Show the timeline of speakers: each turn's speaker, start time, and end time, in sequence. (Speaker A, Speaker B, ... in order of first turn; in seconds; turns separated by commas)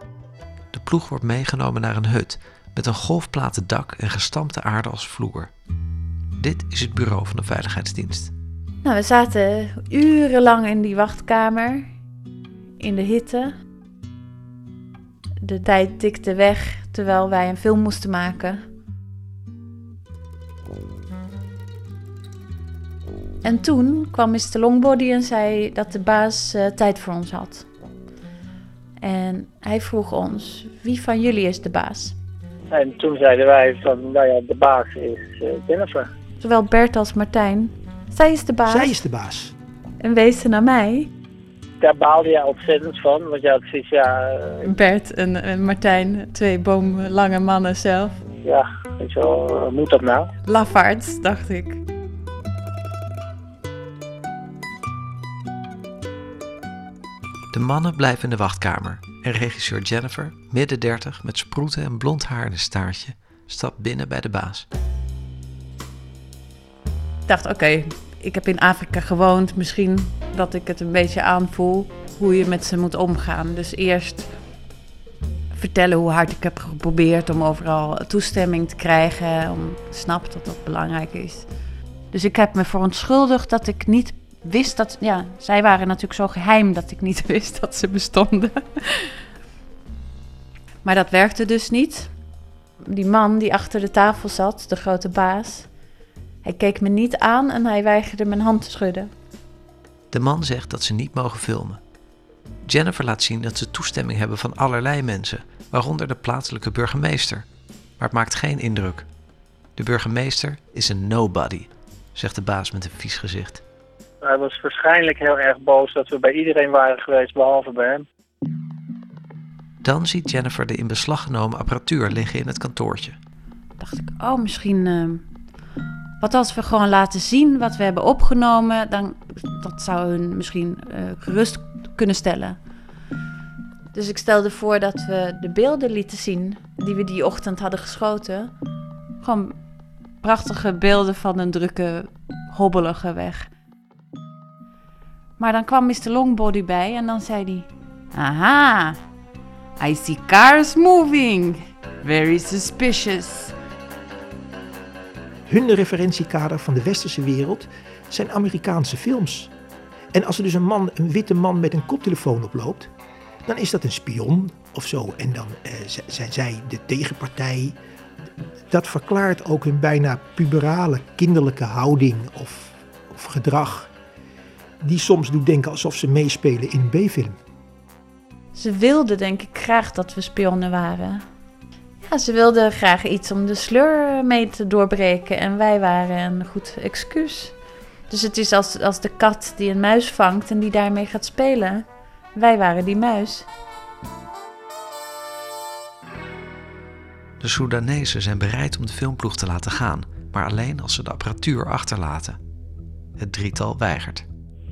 Speaker A: 0.7-5.5, Speaker A: 6.4-8.3, Speaker B: 8.8-11.9, Speaker B: 12.8-13.5, Speaker B: 15.4-18.6, Speaker B: 23.4-27.7, Speaker B: 29.0-32.1, Speaker C: 32.7-36.1, Speaker B: 36.4-38.9, Speaker D: 38.7-39.5, Speaker B: 40.0-41.1, Speaker C: 41.8-44.6, Speaker B: 44.6-48.2, Speaker C: 48.4-50.3, Speaker B: 50.4-51.8, Speaker A: 57.5-64.7, Speaker B: 67.3-74.3, Speaker B: 75.5-81.5, Speaker B: 82.1-89.1, Speaker B: 90.8-92.1, Speaker B: 92.8-95.7, Speaker B: 96.4-99.1, Speaker A: 100.1-101.8, Speaker A: 102.6-107.5, Speaker A: 108.0-109.1, Speaker A: 109.8-113.6, Speaker C: 114.2-118.0, Speaker A: 119.8-123.2, Speaker B: 123.8-125.2, Speaker B: 126.2-132.6, Speaker B: 133.9-138.5, Speaker B: 139.2-139.6, Speaker B: 140.2-143.5, Speaker B: 145.4-149.0, Speaker B: 149.8-153.5, Speaker D: 155.5-159.5, Speaker D: 160.1-162.9, Speaker D: 163.4-167.8, Speaker D: 168.7-173.9, Speaker D: 174.8-177.4, Speaker B: 178.5-181.2, Speaker B: 182.0-187.5, Speaker B: 188.1-193.5, Speaker A: 197.4-202.4, Speaker A: 203.2-204.2